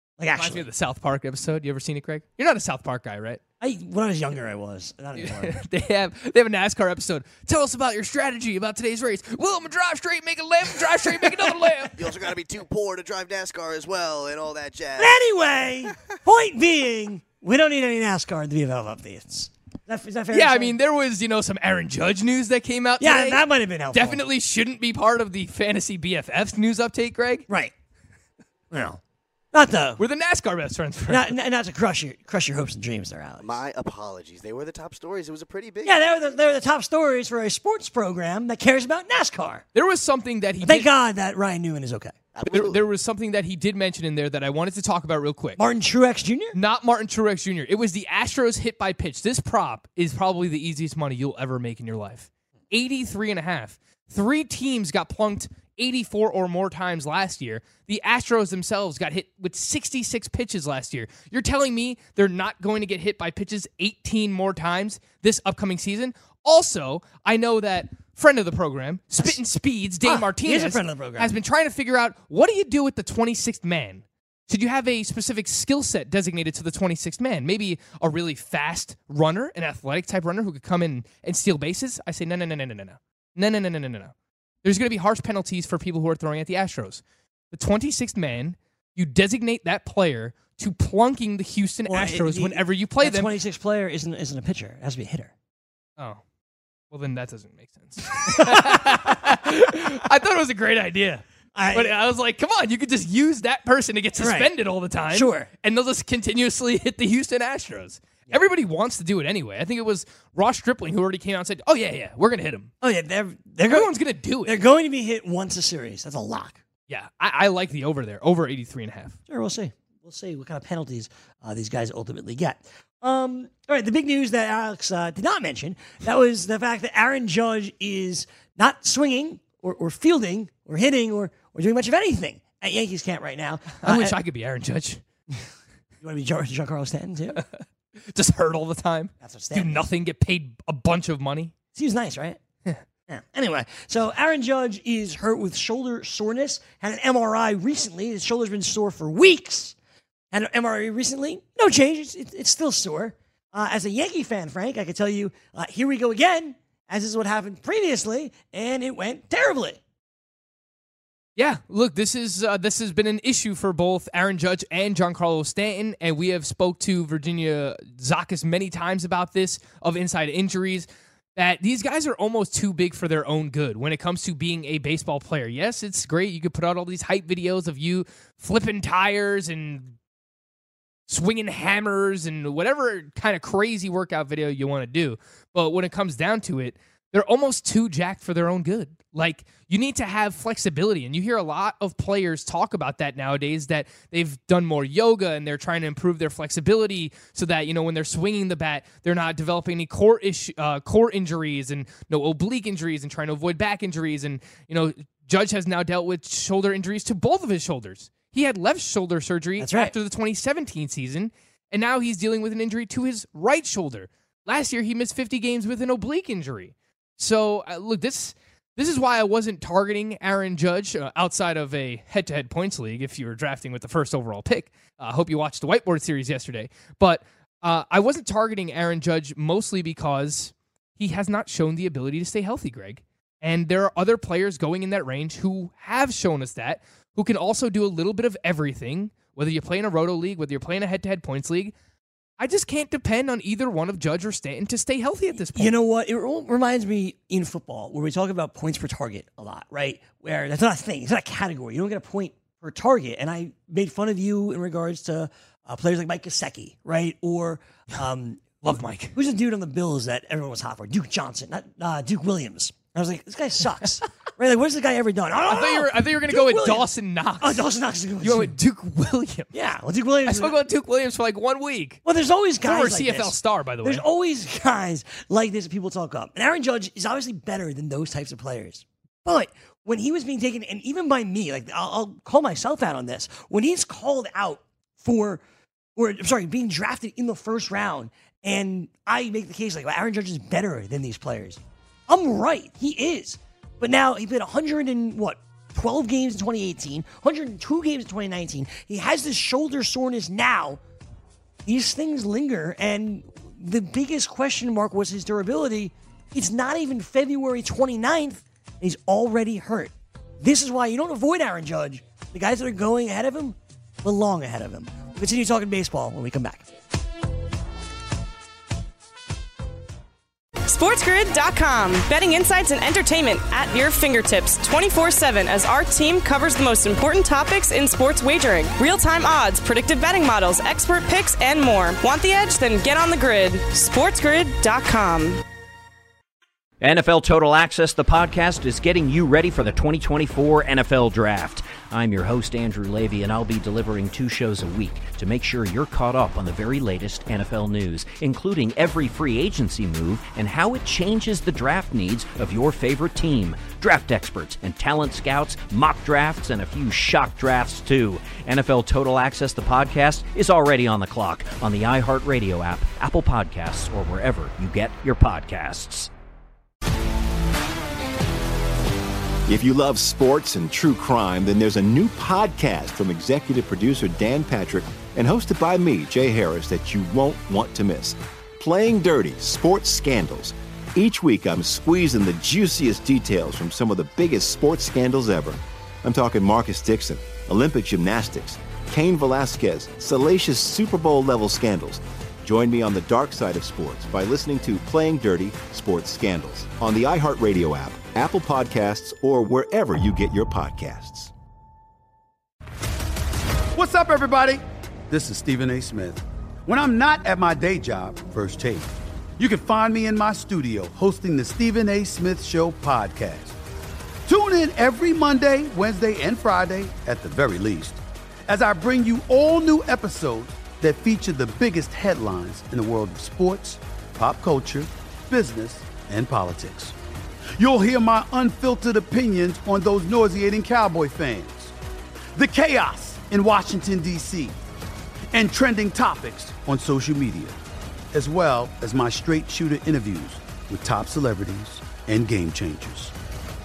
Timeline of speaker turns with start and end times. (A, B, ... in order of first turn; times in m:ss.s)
0:00.2-0:00.6 A
0:00.3-0:03.4 B
0:03.6-0:05.6 A
0:05.2-0:12.0 B
0:12.0-0:15.2 C
0:15.0-0:20.8 A
0:20.3-0:27.5 B
0:23.0-0:24.2 A
0:28.7-0:29.0 A
0:29.5-0:30.0 A
0:30.0-0:31.3 B
0:31.1-0:33.5 A
0:33.4-0:36.0 C
0:35.8-0:39.6 A
0:39.7-0:40.9 B
0:40.6-0:42.2 A
0:42.3-0:42.8 C
0:42.4-0:45.6 B
0:45.6-0:46.6 A
0:46.5-1:33.4 B
1:10.0-1:11.3 A
1:31.9-1:35.3 A
1:36.9-1:52.7 B
1:38.2-1:39.4 A
1:41.5-1:42.0 A
1:44.2-1:44.5 A
1:45.1-1:45.5 A
1:52.8-1:53.9 A
1:53.7-1:54.6 B
1:54.4-1:56.6 A
1:56.9-1:59.2 B
1:59.3-2:14.2 A
2:13.8-2:15.0 B
2:16.0-2:17.4 A
2:17.4-2:21.5 B
2:19.2-2:19.9 A
2:21.7-2:22.4 A
2:23.1-2:29.7 A
2:30.3-2:39.8 A
2:41.4-2:59.9 B
3:01.1-4:01.7 B
3:29.6-3:29.9 A
4:02.4-4:05.7 B
4:05.5-4:18.6 A
4:18.6-4:19.1 B
4:19.1-4:28.5 A
4:25.5-4:27.7 B
4:28.2-4:29.5 B
4:29.5-4:30.5 A
4:30.2-4:32.0 B
4:32.0-4:45.4 A
4:32.6-4:34.0 B
4:46.0-5:00.8 A
5:01.6-5:16.7 A
5:20.6-5:35.4 D
5:36.8-6:06.1 E
6:09.5-6:41.3 F
6:43.7-6:53.6 G
6:54.3-7:06.9 G
7:07.6-7:11.7 G
7:12.4-7:14.5 G
7:15.3-7:17.6 G
7:18.1-7:23.1 G